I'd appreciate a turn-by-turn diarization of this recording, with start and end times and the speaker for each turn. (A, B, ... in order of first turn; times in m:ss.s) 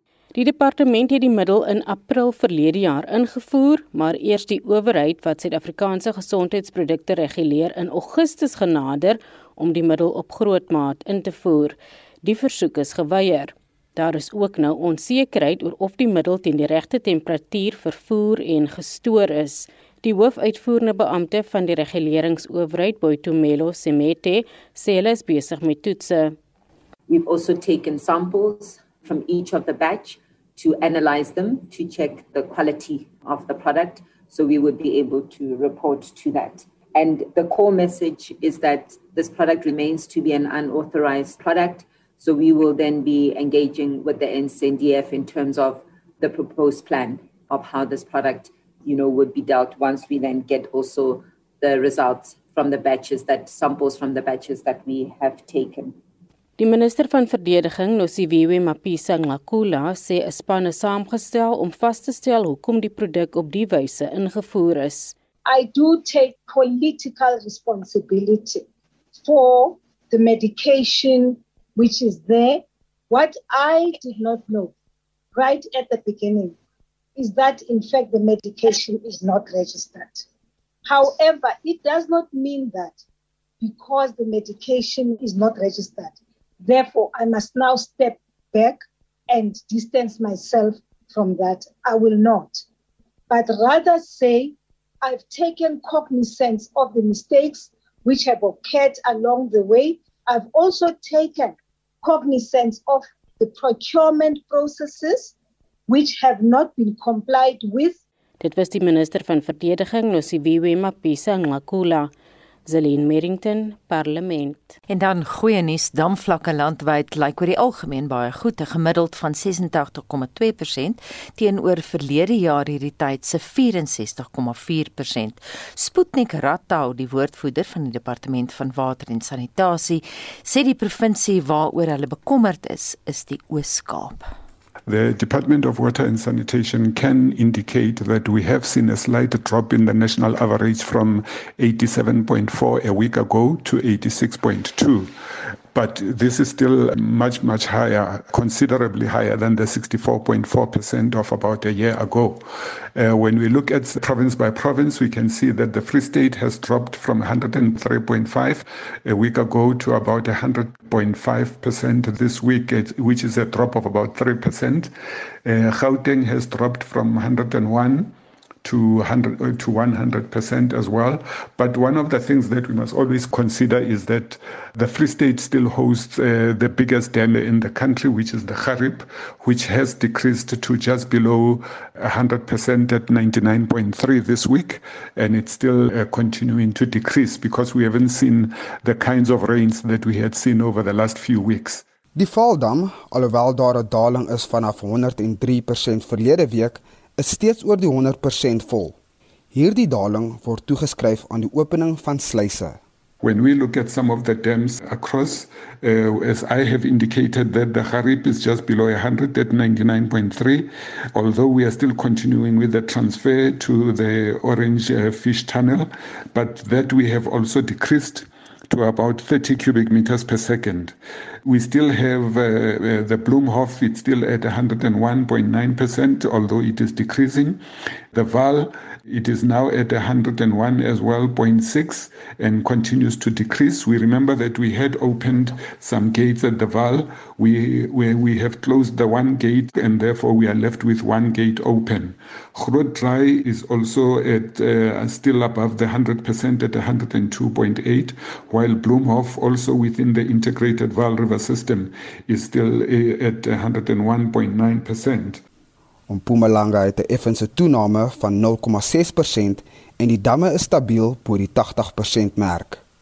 0:00.3-0:26.4 A
0:27.1-0:56.0 B
0:56.6-1:05.1 A
1:05.5-1:08.6 C
1:09.2-1:14.7 C
1:15.3-1:16.5 C
1:17.2-1:20.2 C
1:20.9-1:23.0 C
1:23.6-1:32.6 C
1:33.3-1:45.3 C
1:45.9-1:48.0 C
1:48.4-1:52.1 A
1:52.6-1:54.8 A
1:54.9-2:14.3 D
2:14.9-2:25.1 E
2:25.7-2:44.9 E
2:45.4-2:48.1 E
2:48.6-3:11.8 E
3:12.1-3:19.0 F
3:19.5-3:22.8 F
3:23.2-3:47.6 E
3:48.1-4:15.4 E
4:16.1-4:22.8 F